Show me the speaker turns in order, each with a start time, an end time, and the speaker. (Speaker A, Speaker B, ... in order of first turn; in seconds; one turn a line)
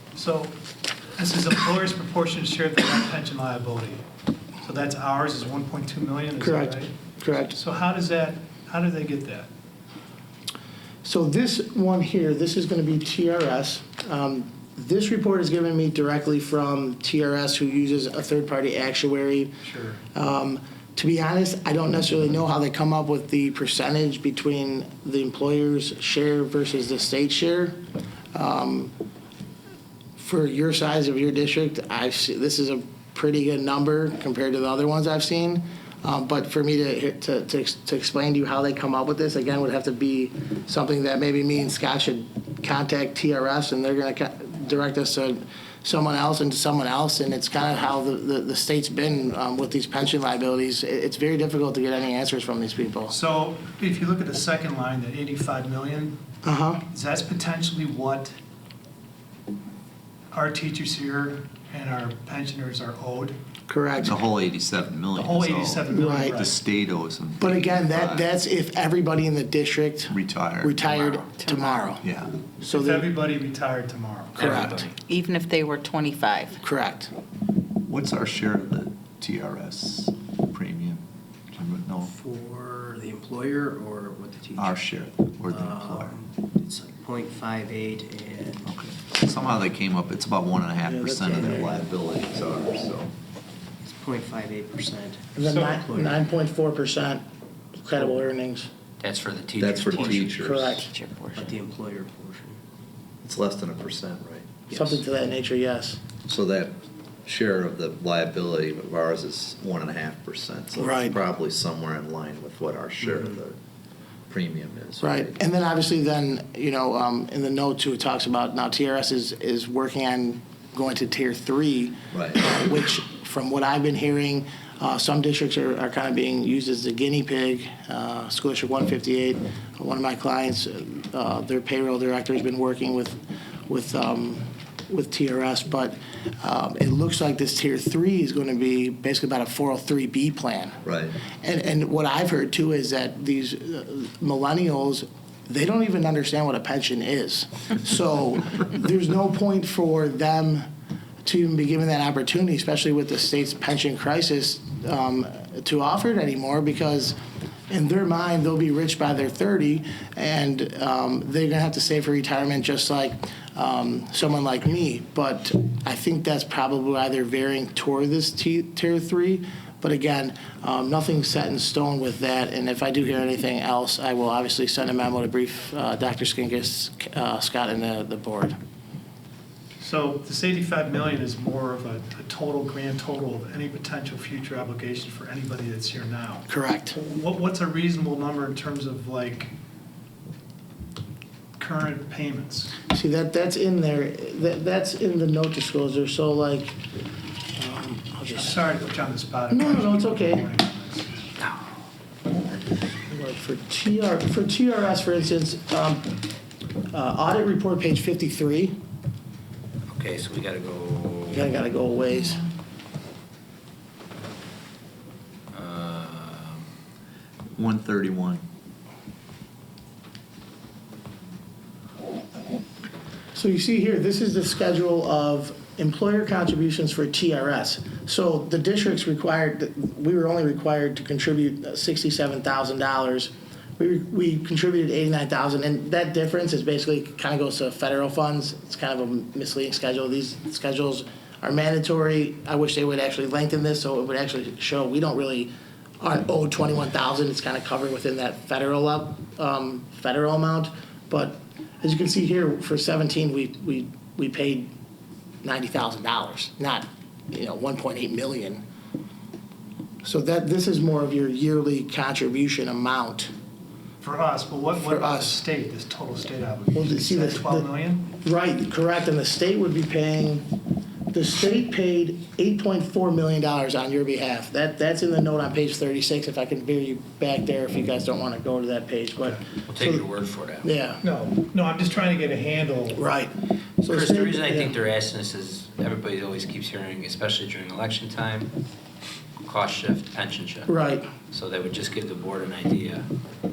Speaker A: 0.1-0.6
Speaker A: 1.2-4.0
Speaker A: 4.6-9.5
Speaker B: 6.4-7.5
Speaker B: 11.0-19.6
Speaker A: 19.6-20.0
Speaker B: 20.1-27.8
Speaker B: 28.3-28.9
Speaker B: 30.2-53.1
Speaker A: 53.1-56.2
Speaker B: 56.4-56.8
Speaker A: 56.9-58.3
Speaker A: 60.3-63.4
Speaker B: 63.7-64.2
Speaker C: 64.0-68.3
Speaker A: 65.1-66.6
Speaker B: 65.9-66.5
Speaker B: 67.4-72.0
Speaker C: 70.1-71.4
Speaker C: 72.0-72.5
Speaker B: 72.6-73.1
Speaker A: 72.6-74.7
Speaker B: 74.3-74.9
Speaker D: 74.4-75.0
Speaker E: 75.1-76.6
Speaker B: 76.6-77.1
Speaker C: 77.9-81.0
Speaker C: 81.5-82.1
Speaker F: 82.1-84.8
Speaker C: 84.6-86.2
Speaker F: 85.5-88.7
Speaker C: 88.6-93.1
Speaker B: 90.8-91.8
Speaker F: 93.8-96.2
Speaker B: 95.4-97.2
Speaker B: 97.8-98.7
Speaker D: 99.0-100.5
Speaker C: 99.6-100.8
Speaker B: 100.4-100.9
Speaker E: 100.9-101.5
Speaker F: 101.3-102.6
Speaker C: 103.2-104.7
Speaker F: 104.7-105.0
Speaker B: 104.7-106.1
Speaker C: 106.2-113.6
Speaker B: 110.8-111.2
Speaker C: 114.3-115.3
Speaker B: 115.0-150.6
Speaker C: 122.1-122.5
Speaker C: 140.8-141.2
Speaker B: 151.2-157.2
Speaker B: 157.7-178.6
Speaker A: 179.8-189.5
Speaker B: 186.5-187.0
Speaker A: 191.6-192.8
Speaker B: 192.9-196.8
Speaker B: 197.6-198.6
Speaker A: 198.3-201.2
Speaker B: 199.5-200.5
Speaker B: 203.1-206.2
Speaker B: 206.9-208.8
Speaker D: 209.9-211.5
Speaker B: 211.3-212.5
Speaker D: 215.5-216.7
Speaker C: 217.6-218.4
Speaker B: 223.3-254.7
Speaker B: 255.4-258.6
Speaker B: 260.0-263.3
Speaker A: 264.0-268.1
Speaker B: 264.9-265.4
Speaker B: 266.8-267.7
Speaker B: 268.2-270.5
Speaker B: 271.1-280.1
Speaker D: 279.7-280.7
Speaker B: 280.6-281.0
Speaker A: 281.0-283.0
Speaker B: 282.9-284.7
Speaker D: 283.9-288.5
Speaker D: 289.4-290.7
Speaker B: 290.7-291.1
Speaker D: 291.3-293.1